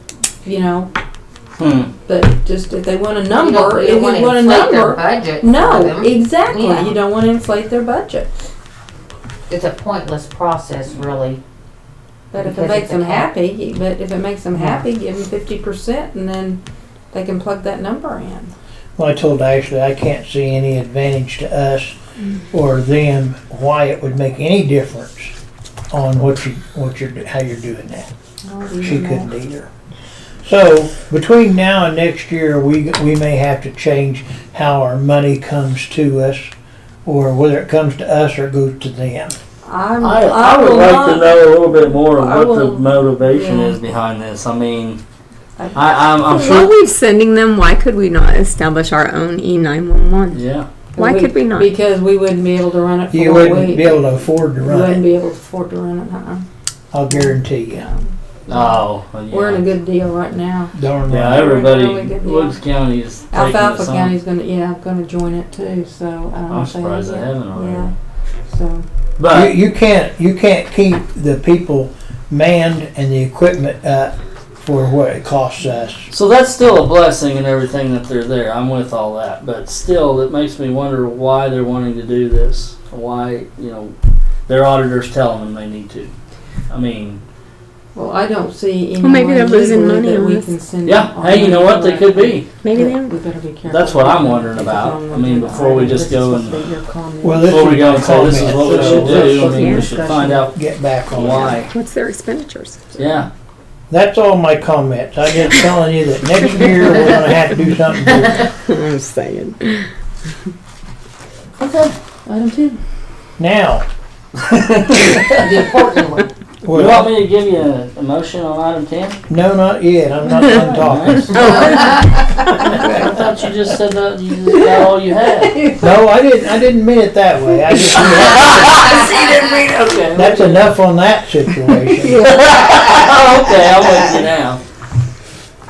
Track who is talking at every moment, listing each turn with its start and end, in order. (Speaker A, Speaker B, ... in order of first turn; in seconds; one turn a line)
Speaker A: 0.4-0.9
Speaker B: 1.6-1.9
Speaker A: 2.0-8.3
Speaker C: 3.3-7.0
Speaker C: 9.5-11.4
Speaker A: 12.3-16.6
Speaker C: 12.4-13.3
Speaker A: 17.1-18.5
Speaker D: 19.0-22.0
Speaker D: 22.5-25.3
Speaker D: 25.9-28.1
Speaker A: 28.4-29.3
Speaker D: 28.8-29.7
Speaker D: 30.4-36.5
Speaker D: 37.0-39.4
Speaker A: 39.6-43.8
Speaker B: 40.0-45.0
Speaker A: 45.6-46.1
Speaker B: 45.7-46.7
Speaker E: 46.3-50.4
Speaker B: 50.3-50.7
Speaker A: 51.0-56.4
Speaker E: 51.0-51.7
Speaker D: 53.1-55.0
Speaker D: 56.9-57.9
Speaker A: 57.1-60.7
Speaker B: 58.5-59.7
Speaker D: 60.7-61.5
Speaker B: 61.1-64.2
Speaker A: 61.3-62.6
Speaker A: 63.3-67.9
Speaker B: 66.5-67.9
Speaker A: 68.5-68.8
Speaker B: 69.2-69.5
Speaker D: 69.3-76.1
Speaker B: 76.1-83.9
Speaker B: 84.5-86.1
Speaker B: 86.7-87.2
Speaker A: 87.9-100.5
Speaker E: 89.0-90.5
Speaker B: 90.8-92.5
Speaker E: 92.6-93.1
Speaker B: 93.6-96.7
Speaker D: 97.2-99.8
Speaker B: 97.4-100.6
Speaker E: 99.4-99.9
Speaker D: 100.5-101.6
Speaker B: 101.1-101.7
Speaker E: 101.2-103.2
Speaker B: 103.0-103.3
Speaker D: 103.9-108.5
Speaker E: 108.3-109.9
Speaker B: 111.6-111.9
Speaker A: 112.2-112.8
Speaker D: 113.4-113.8
Speaker B: 114.5-115.2
Speaker C: 115.3-116.3
Speaker D: 116.6-117.2
Speaker B: 116.7-119.2
Speaker D: 119.3-121.6
Speaker B: 120.4-122.0
Speaker E: 121.3-122.8
Speaker B: 122.6-125.7
Speaker D: 125.8-128.9
Speaker B: 127.7-130.7
Speaker D: 130.1-132.2
Speaker E: 132.0-132.4
Speaker B: 132.1-134.6